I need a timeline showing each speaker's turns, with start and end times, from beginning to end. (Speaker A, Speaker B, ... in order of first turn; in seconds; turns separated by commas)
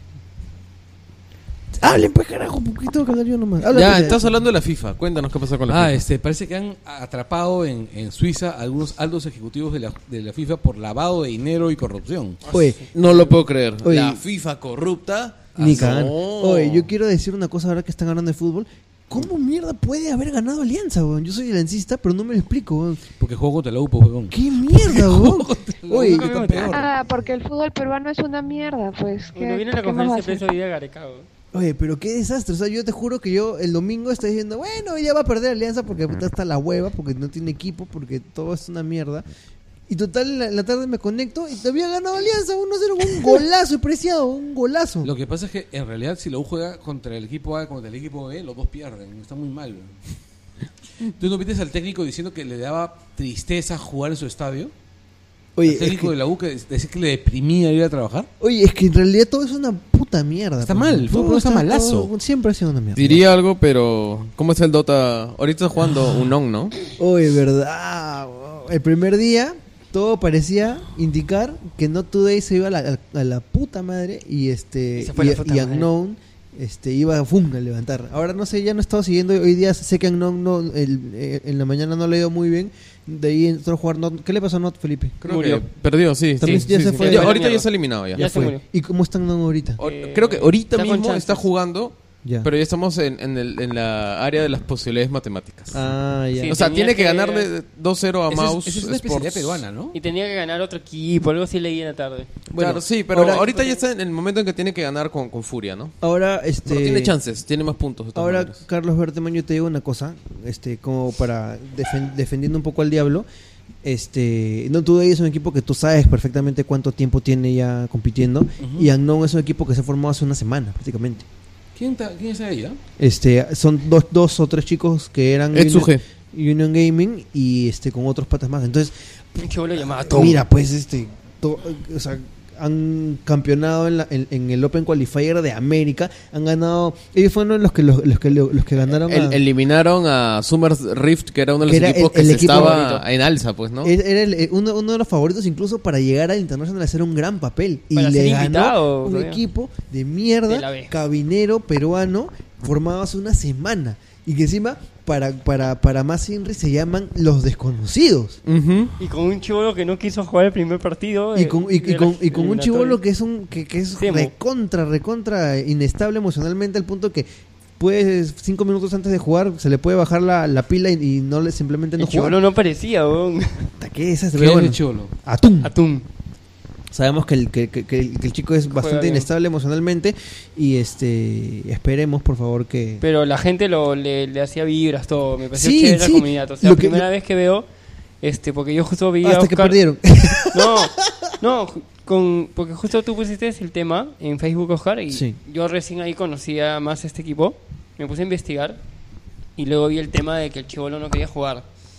Speaker A: 1.8-4.3, Speaker B: 3.7-6.0, Speaker C: 5.7-12.4, Speaker D: 12.4-12.9, Speaker A: 12.5-13.3, Speaker B: 12.9-16.9, Speaker A: 13.8-14.2, Speaker C: 15.6-16.0, Speaker A: 15.6-23.0, Speaker C: 23.2-26.9, Speaker A: 24.3-26.6, Speaker D: 25.9-26.9, Speaker E: 26.7-30.5, Speaker D: 29.3-31.3, Speaker A: 31.5-39.2, Speaker A: 39.9-45.1, Speaker C: 45.0-50.0, Speaker C: 51.0-54.7, Speaker A: 55.5-56.1, Speaker C: 55.6-58.3, Speaker A: 58.4-63.2, Speaker C: 60.6-62.1, Speaker B: 63.0-66.7, Speaker A: 67.0-85.6, Speaker D: 75.0-75.9, Speaker B: 85.2-88.3, Speaker D: 85.3-85.6, Speaker A: 86.4-87.4, Speaker D: 86.4-88.6, Speaker A: 88.2-89.8, Speaker B: 89.8-95.8, Speaker D: 89.8-91.5, Speaker A: 92.2-92.5, Speaker A: 95.7-96.6, Speaker D: 96.3-97.5, Speaker B: 96.5-99.6, Speaker C: 98.3-100.0, Speaker D: 99.9-102.4, Speaker B: 102.5-105.9, Speaker A: 102.5-103.5, Speaker A: 106.0-107.2, Speaker B: 106.7-108.6, Speaker A: 108.1-113.2, Speaker A: 113.8-121.2, Speaker C: 118.6-118.9, Speaker C: 121.8-122.8, Speaker A: 123.0-128.9, Speaker B: 125.5-126.0, Speaker D: 129.3-130.4, Speaker A: 129.9-139.4, Speaker B: 139.1-143.9, Speaker A: 141.6-143.0, Speaker D: 142.2-143.0, Speaker A: 143.8-158.4, Speaker D: 147.9-149.4, Speaker D: 150.5-150.9, Speaker B: 158.4-158.9, Speaker D: 159.0-163.0, Speaker A: 161.3-167.3, Speaker D: 164.0-164.3, Speaker A: 167.8-172.4, Speaker D: 172.0-173.7, Speaker A: 173.8-175.7, Speaker C: 174.3-175.1, Speaker D: 175.6-176.1, Speaker A: 176.9-183.0, Speaker D: 178.7-179.3, Speaker D: 183.0-187.7, Speaker A: 185.5-187.1, Speaker D: 188.2-189.8, Speaker A: 189.2-190.9, Speaker D: 190.5-198.8, Speaker A: 195.1-195.4, Speaker D: 199.6-201.7